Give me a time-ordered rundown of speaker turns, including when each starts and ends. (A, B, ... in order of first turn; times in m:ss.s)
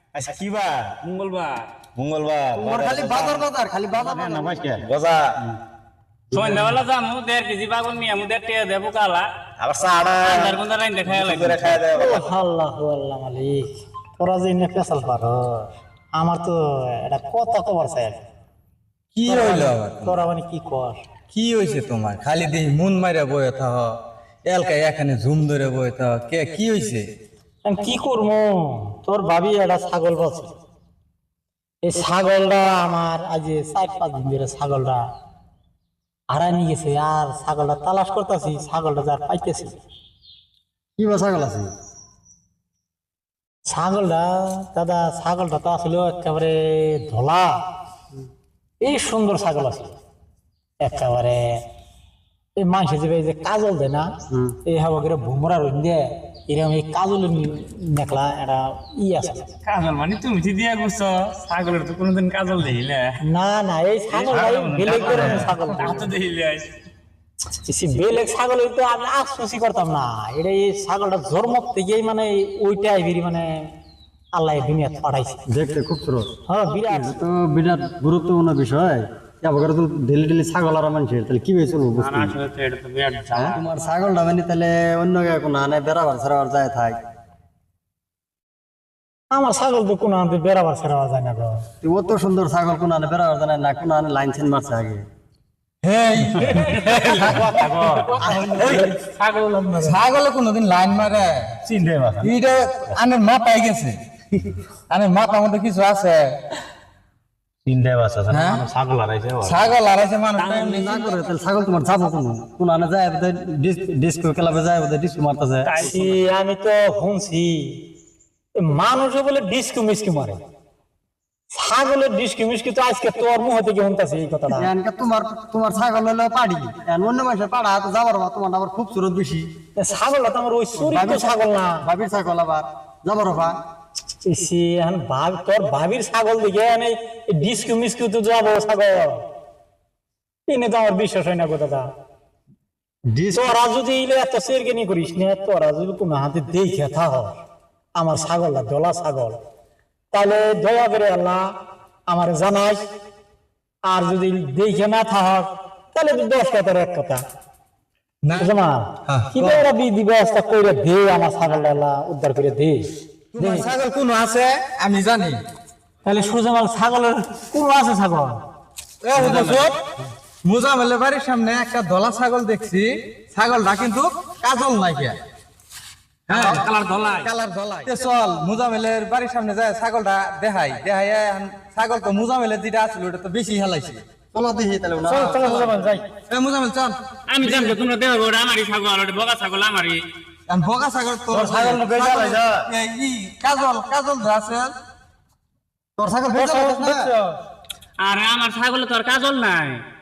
0:00.2-0:00.9 A
0:01.0-0:01.7 B
0:02.0-0:05.4 A
0:02.5-0:04.8 C
0:06.3-0:09.3 B
0:06.3-0:06.8 C
0:09.6-0:12.2 A
0:10.2-0:11.9 B
0:11.9-0:18.2 D
0:19.1-0:20.2 E
0:19.3-0:21.0 D
0:21.3-0:27.0 E
0:27.6-0:30.5 D
0:31.9-0:35.1 D
0:36.3-0:39.8 D
0:41.0-0:41.7 C
0:43.7-0:47.6 D
0:48.8-0:49.9 D
0:50.8-0:51.6 D
0:52.6-0:54.1 D
0:54.6-0:59.5 D
0:59.6-1:03.2 B
1:03.2-1:06.1 D
1:04.1-1:06.7 B
1:07.6-1:13.7 D
1:14.3-1:15.4 D
1:15.5-1:16.3 C
1:16.5-1:17.2 D
1:16.9-1:22.4 C
1:22.0-1:23.6 B
1:23.3-1:27.0 C
1:29.3-1:31.6 D
1:31.8-1:35.1 C
1:35.8-1:37.8 E
1:36.4-1:39.9 B
1:37.5-1:38.1 A
1:38.2-1:38.6 D
1:38.5-1:38.9 E
1:39.8-1:41.5 E
1:41.6-1:42.3 A
1:42.2-1:44.0 E
1:44.9-1:46.4 E
1:47.6-1:49.7 A
1:48.3-1:48.6 E
1:49.4-1:50.9 E
1:50.4-1:51.2 B
1:50.8-1:55.7 C
1:55.6-1:56.1 B
1:55.8-1:57.8 D
1:58.6-2:00.4 D
2:01.5-2:04.7 D
2:04.5-2:09.5 C
2:09.8-2:11.8 D
2:10.8-2:13.6 C
2:14.2-2:19.2 D
2:20.5-2:21.9 D
2:23.1-2:23.5 C
2:23.3-2:27.4 D
2:27.9-2:29.4 D
2:30.1-2:31.5 D
2:32.1-2:32.9 D
2:33.9-2:37.2 D
2:38.2-2:38.5 E
2:38.4-2:42.9 D
2:39.1-2:39.6 E
2:43.3-2:45.4 E
2:43.4-2:43.7 D
2:46.0-2:48.4 D
2:49.0-2:49.8 E
2:49.2-2:49.7 B
2:50.4-2:55.2 E
2:56.3-2:56.7 E
2:56.3-2:57.3 B
2:57.2-3:04.0 E
3:04.3-3:06.0 C
3:05.1-3:05.7 E
3:05.1-3:06.0 D
3:06.3-3:07.8 E
3:07.3-3:10.0 B
3:10.5-3:14.8 E
3:11.3-3:12.7 A
3:16.0-3:17.1 C
3:18.0-3:19.8 B